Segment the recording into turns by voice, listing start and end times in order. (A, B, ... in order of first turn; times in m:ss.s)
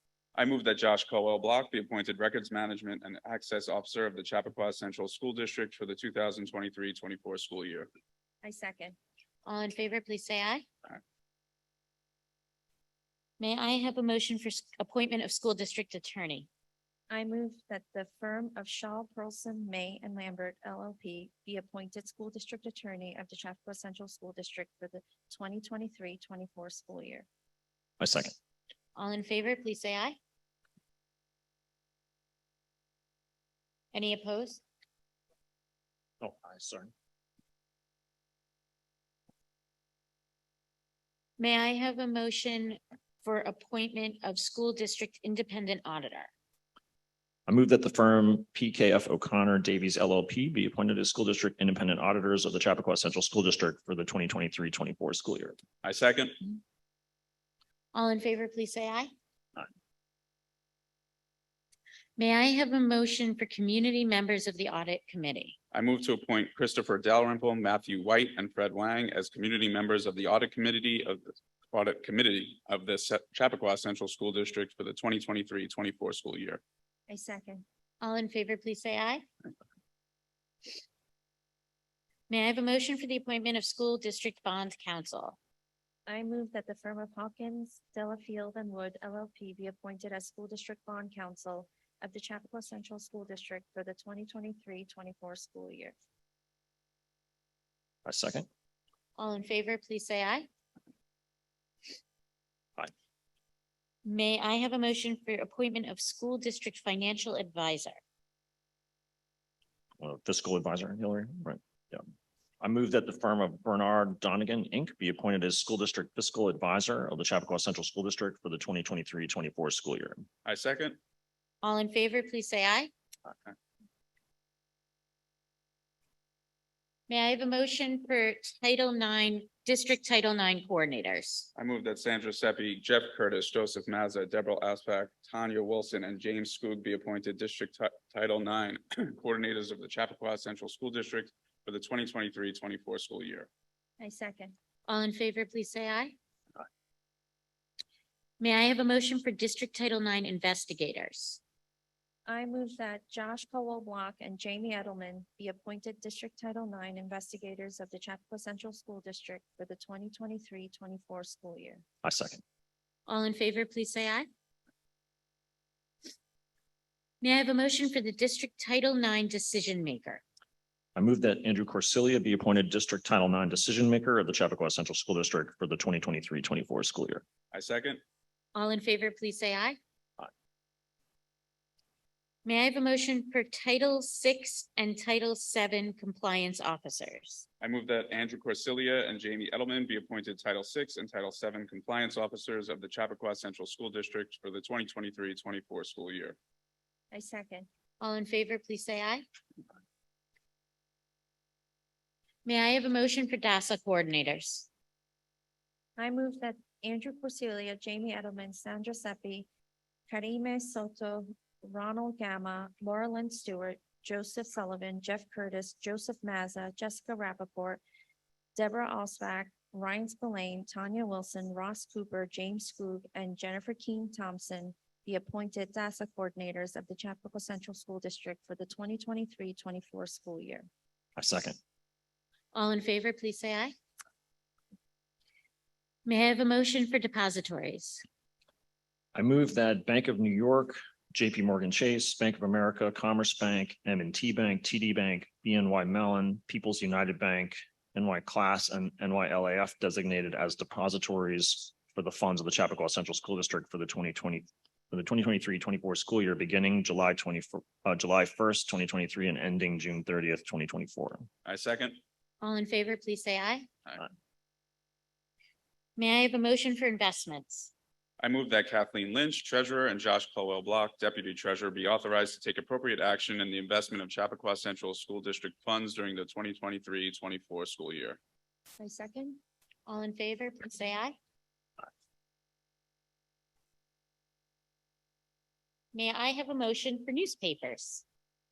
0:00.3-0:07.9 A
0:08.4-0:09.0 B
0:09.4-0:10.6 C
0:13.4-0:16.5 C
0:17.1-0:27.2 B
0:28.0-0:28.3 D
0:28.9-0:30.2 C
0:33.9-0:34.6 C
0:36.2-0:36.9 D
0:41.4-0:46.3 C
0:47.5-0:55.6 D
0:55.8-0:56.4 A
0:57.9-0:59.1 C
1:02.2-1:05.6 C
1:05.7-1:16.6 A
1:17.1-1:17.6 B
1:18.0-1:19.2 C
1:22.3-1:25.4 C
1:26.1-1:35.9 B
1:38.0-1:38.5 D
1:39.2-1:40.5 C
1:44.0-1:48.0 C
1:50.0-1:52.0 D
1:52.6-2:00.2 D
2:00.4-2:01.0 A
2:01.6-2:02.9 C
2:07.1-2:11.5 C
2:11.5-2:23.5 A
2:24.0-2:24.5 B
2:24.9-2:26.1 C
2:28.4-2:31.4 C
2:32.3-2:41.8 B
2:42.0-2:42.4 D
2:43.1-2:44.3 C
2:47.2-2:50.2 C
2:51.0-2:57.2 D
2:57.5-2:58.0 A
2:58.5-2:59.8 C
3:02.4-3:07.4 C
3:07.6-3:16.4 A
3:17.1-3:17.7 B
3:18.0-3:19.2 C
3:22.4-3:24.7 C
3:26.0-3:29.5 B
3:30.1-3:37.8 B
3:38.5-3:50.7 B
3:51.2-3:51.6 D
3:52.5-3:53.7 C
3:56.0-3:58.0 C
3:59.1-4:21.3 D
4:21.4-4:22.0 A
4:22.4-4:23.7 C
4:26.0-4:27.7 C
4:28.2-4:38.2 A
4:38.8-4:39.4 B
4:39.9-4:41.2 C
4:45.9-4:48.0 C